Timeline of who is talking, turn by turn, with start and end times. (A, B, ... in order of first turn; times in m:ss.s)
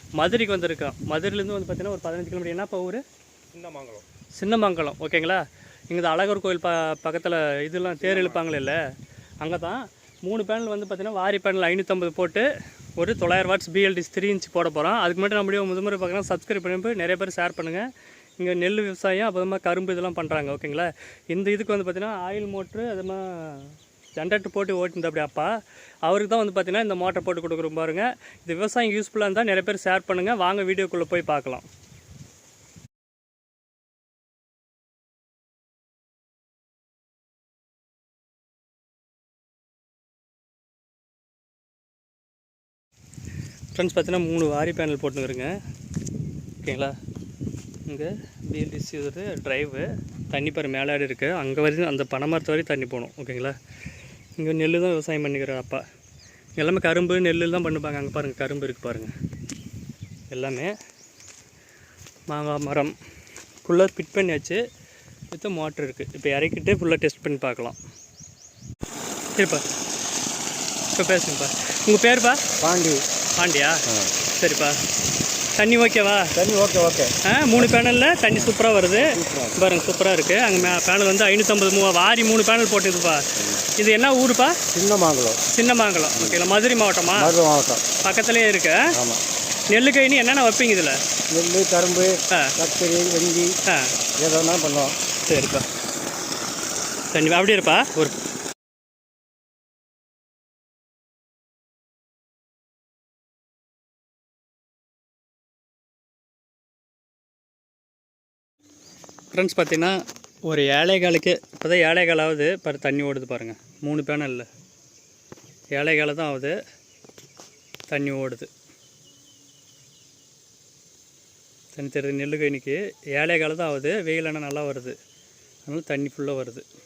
0:00.2-0:03.0 A
0:03.6-0:04.0 B
0:04.4-0:08.8 A
0:09.4-0:17.9 A
0:18.4-0:25.5 A
0:26.1-0:31.7 A
0:43.7-0:45.6 A
0:46.6-0:47.0 A
0:47.9-0:53.6 A
0:54.4-0:55.8 A
0:56.6-0:59.1 A
1:00.3-1:00.7 A
1:02.3-1:03.0 A
1:03.6-1:04.6 A
1:05.3-1:07.8 A
1:09.4-1:09.6 A
1:10.9-1:12.4 A
1:12.6-1:13.0 B
1:13.4-1:13.8 A
1:14.4-1:14.8 A
1:15.6-1:16.3 A
1:16.4-1:17.7 B
1:17.2-1:24.6 A
1:19.0-1:19.7 B
1:24.7-1:25.4 B
1:25.5-1:27.4 A
1:26.2-1:26.4 B
1:27.2-1:27.8 B
1:28.0-1:28.9 A
1:28.9-1:29.2 B
1:29.7-1:31.0 A
1:31.3-1:33.5 B
1:33.7-1:33.9 A
1:34.2-1:35.0 B
1:35.2-1:35.7 A
1:37.1-1:38.2 A
1:49.3-1:54.5 A
1:55.7-1:56.6 A
1:57.9-1:58.5 A
2:01.7-2:05.0 A
2:05.7-2:06.7 A